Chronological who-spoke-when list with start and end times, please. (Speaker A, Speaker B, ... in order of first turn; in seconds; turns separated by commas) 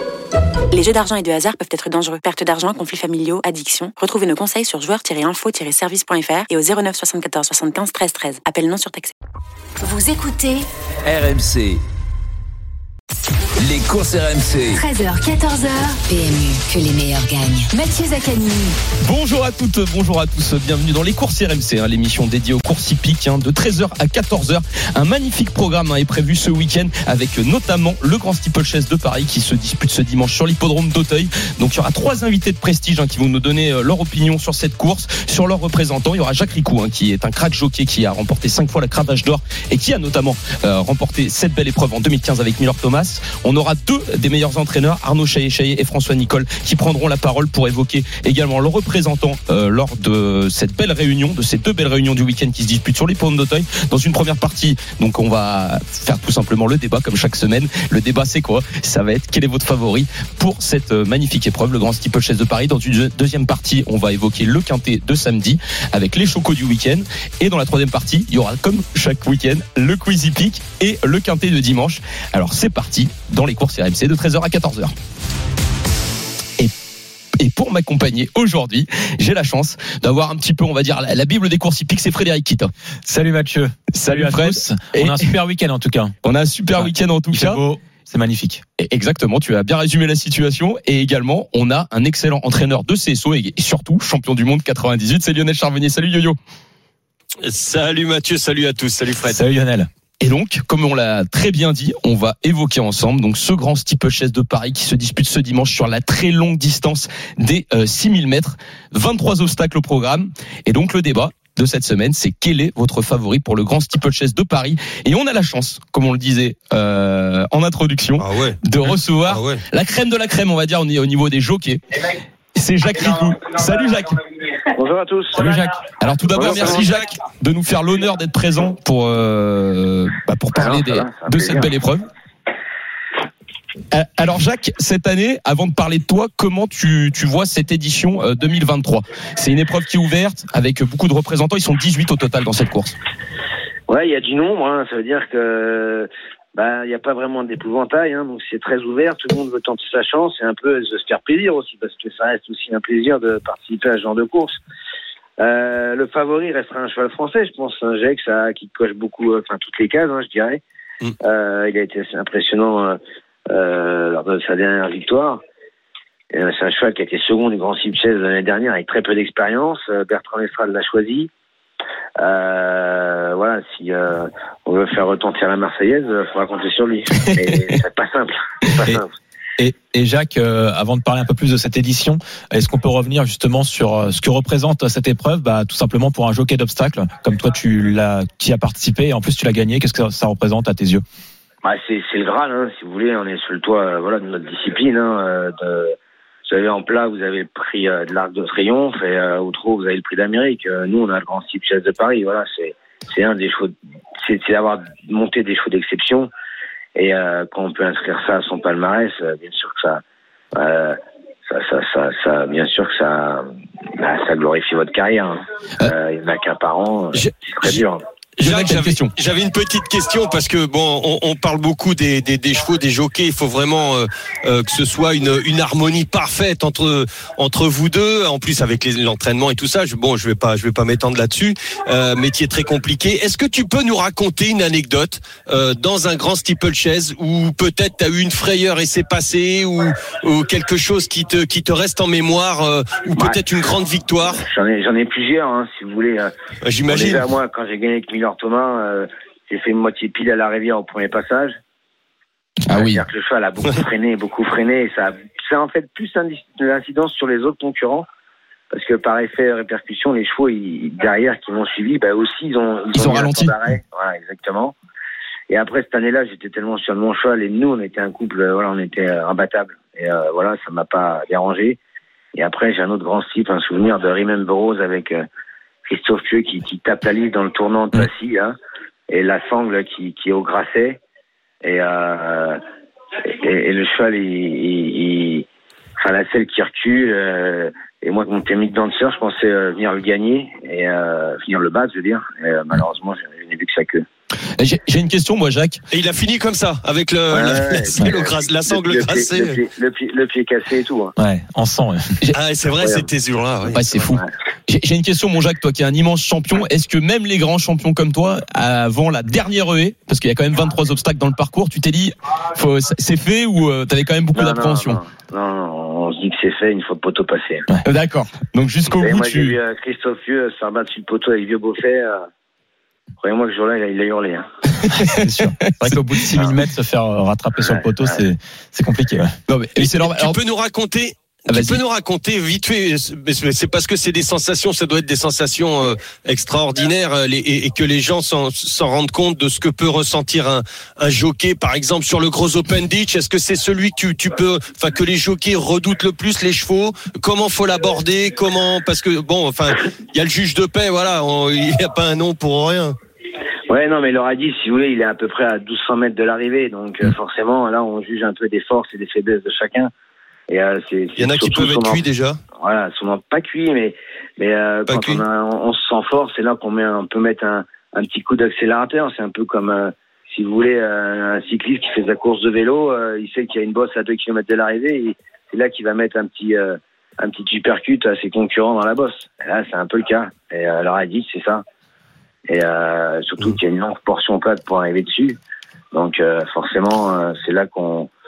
Speaker A: 0.7-9.1, Speaker B: 9.8-10.7, Speaker C: 11.1-11.8, Speaker C: 13.6-14.8, Speaker B: 14.7-18.8, Speaker D: 19.0-74.9, Speaker D: 77.4-82.7, Speaker E: 83.0-86.1, Speaker D: 83.9-85.3, Speaker D: 86.2-87.6, Speaker E: 86.8-88.6, Speaker D: 88.8-96.3, Speaker F: 97.4-99.4, Speaker E: 99.3-99.9, Speaker D: 100.2-122.0, Speaker F: 118.2-119.6, Speaker D: 122.5-124.2, Speaker G: 124.7-125.5, Speaker D: 125.4-132.1, Speaker F: 126.3-127.0, Speaker G: 126.4-126.8, Speaker G: 130.5-131.7, Speaker D: 133.9-142.9, Speaker G: 143.9-154.6, Speaker G: 155.4-160.6, Speaker G: 161.2-163.0, Speaker G: 163.5-165.4, Speaker G: 166.3-171.3, Speaker G: 172.2-179.1, Speaker E: 179.6-191.0, Speaker G: 191.6-195.9, Speaker G: 196.5-206.3, Speaker G: 206.9-210.0, Speaker G: 210.5-218.0, Speaker F: 217.1-217.8, Speaker F: 218.4-244.4, Speaker D: 218.4-219.1, Speaker G: 244.2-246.3, Speaker F: 246.6-247.2, Speaker G: 246.8-251.6, Speaker D: 252.7-253.0, Speaker G: 252.7-258.1, Speaker G: 258.7-264.7, Speaker D: 262.9-263.5, Speaker G: 265.5-271.8, Speaker G: 272.3-275.2, Speaker G: 275.9-278.6, Speaker G: 279.1-281.0, Speaker G: 281.6-282.6, Speaker G: 283.2-285.5, Speaker G: 286.0-294.0, Speaker D: 294.6-295.8, Speaker F: 295.9-299.6, Speaker G: 297.3-301.1, Speaker E: 301.2-302.1, Speaker F: 302.3-303.8, Speaker G: 302.8-303.1, Speaker D: 303.7-315.0, Speaker G: 304.0-304.3, Speaker G: 314.3-317.6, Speaker D: 317.8-319.6, Speaker G: 319.0-322.2, Speaker G: 323.2-324.5, Speaker D: 324.9-326.0, Speaker E: 325.1-329.3, Speaker G: 327.6-328.1, Speaker D: 329.5-330.4, Speaker F: 329.8-352.9, Speaker D: 331.5-331.8, Speaker G: 353.7-359.9, Speaker G: 360.5-362.0, Speaker F: 361.2-362.4, Speaker G: 362.6-381.6, Speaker F: 364.9-365.2, Speaker G: 382.5-385.4, Speaker G: 385.9-388.1